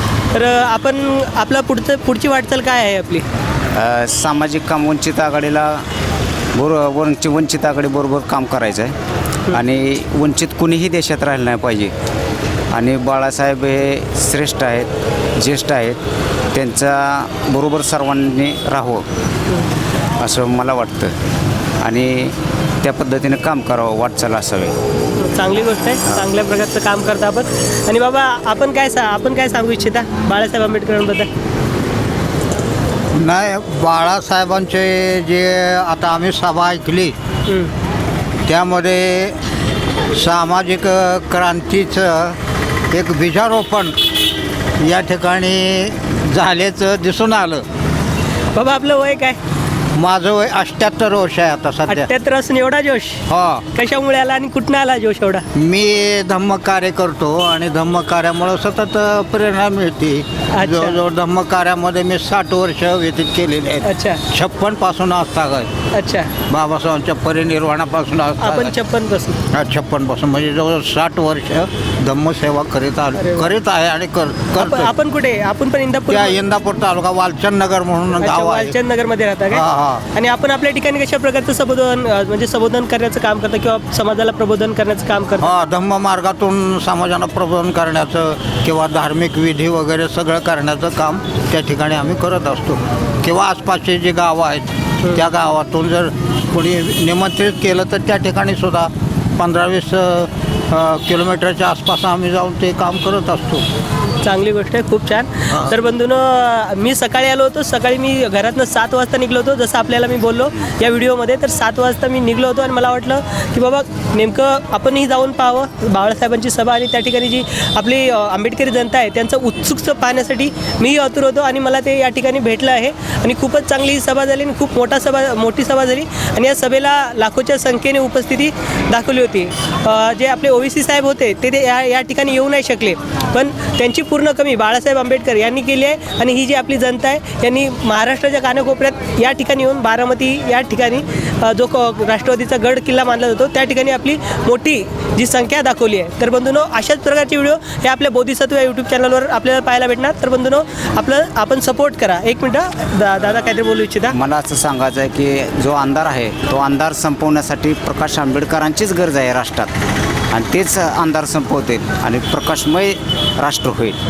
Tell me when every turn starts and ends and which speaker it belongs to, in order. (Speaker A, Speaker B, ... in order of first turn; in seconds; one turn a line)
Speaker A: 0.3-3.2
Speaker B: 3.7-5.9
Speaker B: 6.5-8.9
Speaker B: 9.5-11.9
Speaker B: 12.7-16.0
Speaker B: 16.5-19.1
Speaker B: 20.2-21.1
Speaker B: 21.8-24.8
Speaker A: 25.2-31.3
Speaker C: 33.1-37.1
Speaker A: 37.5-37.7
Speaker C: 38.5-39.4
Speaker C: 40.1-42.4
Speaker C: 42.9-44.0
Speaker C: 44.8-47.6
Speaker A: 48.5-49.4
Speaker C: 49.9-52.1
Speaker A: 51.9-55.5
Speaker C: 53.3-53.6
Speaker C: 55.5-65.7
Speaker A: 60.5-61.0
Speaker A: 63.8-64.2
Speaker A: 65.9-66.3
Speaker C: 66.5-68.8
Speaker A: 68.4-69.4
Speaker C: 69.5-74.9
Speaker A: 73.2-73.5
Speaker A: 74.6-76.4
Speaker C: 76.1-78.8
Speaker A: 78.2-85.5
Speaker C: 79.5-80.0
Speaker C: 85.4-103.6
Speaker A: 104.2-154.1
Speaker B: 154.1-159.7
Speaker B: 160.3-164.0